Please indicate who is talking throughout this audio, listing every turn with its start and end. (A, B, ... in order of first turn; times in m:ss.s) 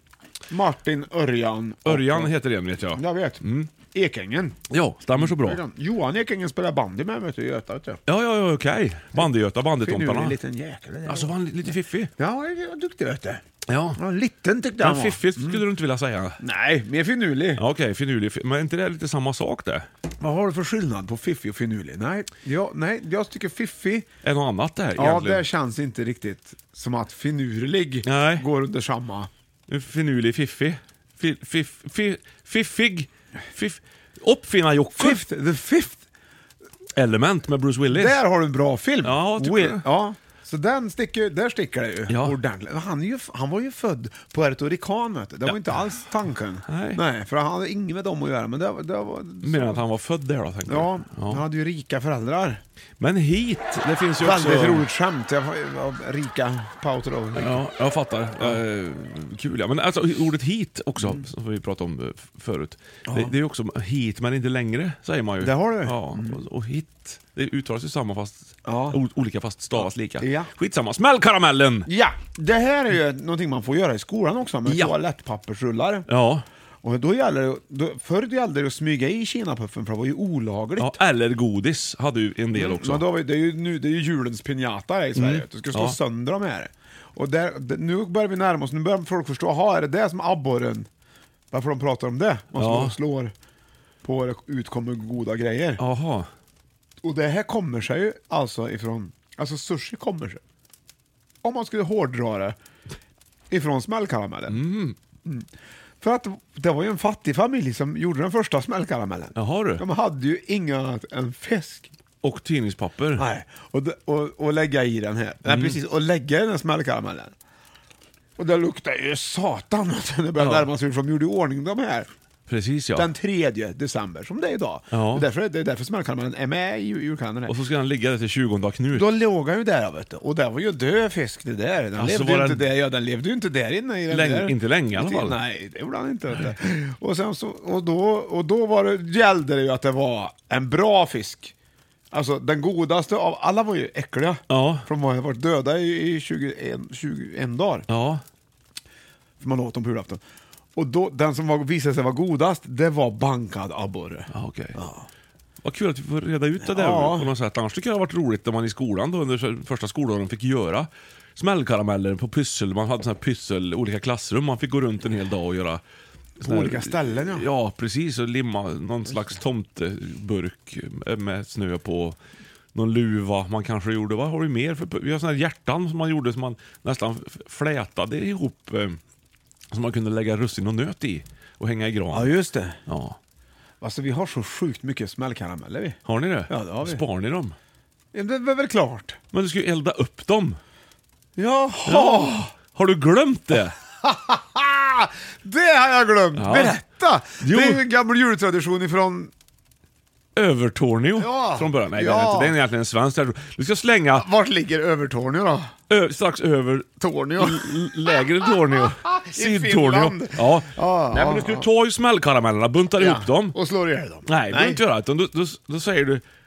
0:00.5-0:02.3 A
0:01.8-0:03.7 B
0:02.9-0:04.6 A
0:04.7-0:05.6 B
0:05.1-0:08.0 A
0:08.1-0:10.4 B
0:09.8-0:11.3 A
0:11.0-0:12.1 B
0:12.2-0:13.4 A
0:13.7-0:14.0 B
0:14.0-0:15.6 A
0:14.8-0:16.4 B
0:16.4-0:17.6 A
0:17.6-0:19.9 B
0:20.2-0:24.1 A
0:24.2-0:25.4 B
0:25.0-0:29.3 A
0:28.0-0:28.4 B
0:29.7-0:35.2 B
0:34.9-0:36.0 A
0:36.9-0:38.2 B
0:37.9-0:49.8 A
0:39.0-0:39.8 B
0:42.1-0:42.4 B
0:45.4-0:45.8 B
0:46.7-0:47.0 B
0:49.4-0:51.4 B
0:50.6-0:52.6 A
0:53.0-0:54.9 B
0:54.2-0:57.6 A
0:57.4-1:11.9 B
1:03.1-1:03.3 A
1:05.4-1:06.4 A
1:08.6-1:09.0 A
1:09.7-1:10.5 A
1:11.8-1:16.1 A
1:14.6-1:14.9 B
1:16.1-1:16.4 B
1:16.8-1:21.0 A
1:20.8-1:23.0 B
1:22.5-1:30.9 A
1:25.1-1:26.0 B
1:31.5-1:33.3 A
1:32.6-1:33.0 B
1:34.0-1:35.8 A
1:35.8-1:36.3 B
1:37.0-1:40.4 A
1:41.4-1:42.6 A
1:43.5-1:44.6 A
1:44.5-1:45.0 B
1:46.0-1:51.9 A
1:49.3-1:49.8 B
1:52.2-1:53.2 B
1:53.2-1:57.3 A
1:55.4-1:55.8 B
1:58.4-2:02.1 A
2:00.4-2:00.7 B
2:02.5-2:03.1 B
2:02.9-2:07.5 A
2:04.9-2:05.2 B
2:07.4-2:09.1 B
2:08.9-2:21.5 A
2:11.9-2:12.7 B
2:14.1-2:15.4 B
2:22.1-2:27.8 A
2:24.5-2:24.8 B
2:27.9-2:28.2 B
2:29.4-2:30.2 A
2:30.8-2:35.1 A
2:34.3-2:34.8 B
2:35.6-2:45.8 B
2:36.6-2:37.3 A
2:46.4-2:47.5 A
2:46.4-2:52.2 B
2:52.7-2:59.0 B
2:59.7-3:02.3 B
3:02.1-3:02.8 A
3:02.9-3:03.2 B
3:03.8-3:07.0 A
3:06.0-3:07.5 B
3:08.1-3:09.2 A
3:09.3-3:10.6 B
3:11.4-3:12.5 A
3:11.8-3:13.8 B
3:14.0-3:19.3 A
3:16.4-3:16.8 B
3:17.4-3:17.8 B
3:20.4-3:24.2 B
3:21.2-3:22.6 A
3:24.1-3:25.7 A
3:25.9-3:33.5 B
3:27.0-3:27.8 A
3:28.8-3:31.7 A
3:33.0-3:34.8 A
3:34.2-3:36.2 B